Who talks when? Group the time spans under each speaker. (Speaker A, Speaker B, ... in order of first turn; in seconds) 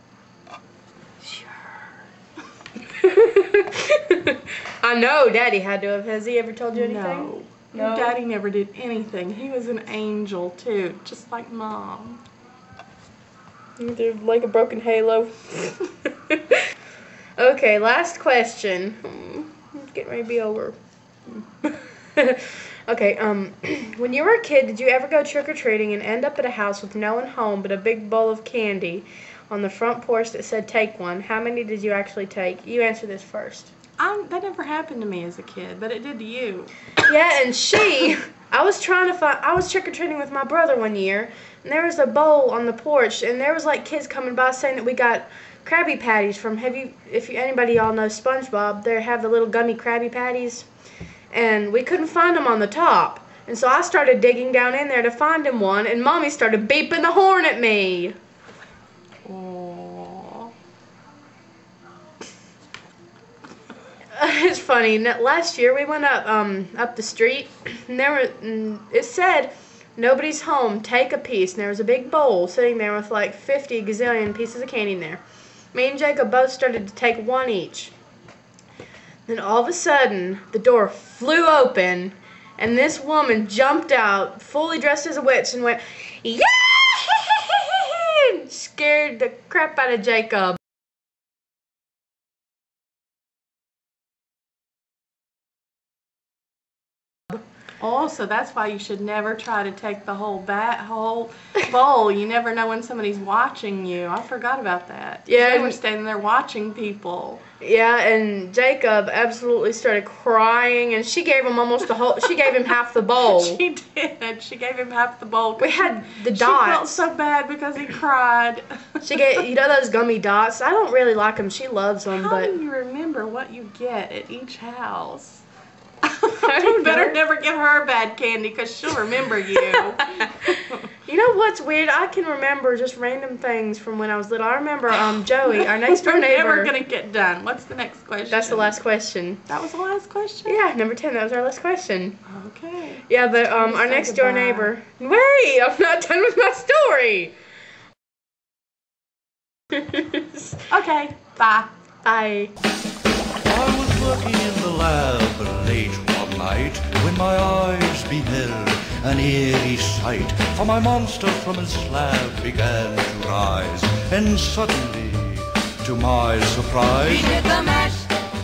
Speaker A: 1.2-1.7, 2.9-8.2, 13.8-16.6, 17.4-20.8, 21.3-33.7, 37.1-50.7, 51.3-58.1, 64.1-75.2, 75.7-77.9, 79.3-90.6, 105.3-105.8, 107.6-113.6, 115.6-117.0, 119.0-122.5, 126.4-127.2, 131.1-136.7, 138.3-139.4, 140.4-142.2, 143.1-147.3, 149.7-150.6, 152.0-152.5
Speaker B: 6.7-12.2, 34.0-36.7, 59.2-60.5, 97.8-107.4, 113.2-118.7, 122.2-125.4, 126.0-130.9, 135.5-138.8, 139.5-140.6, 142.3-144.7, 150.7-151.7
Speaker C: 153.4-168.0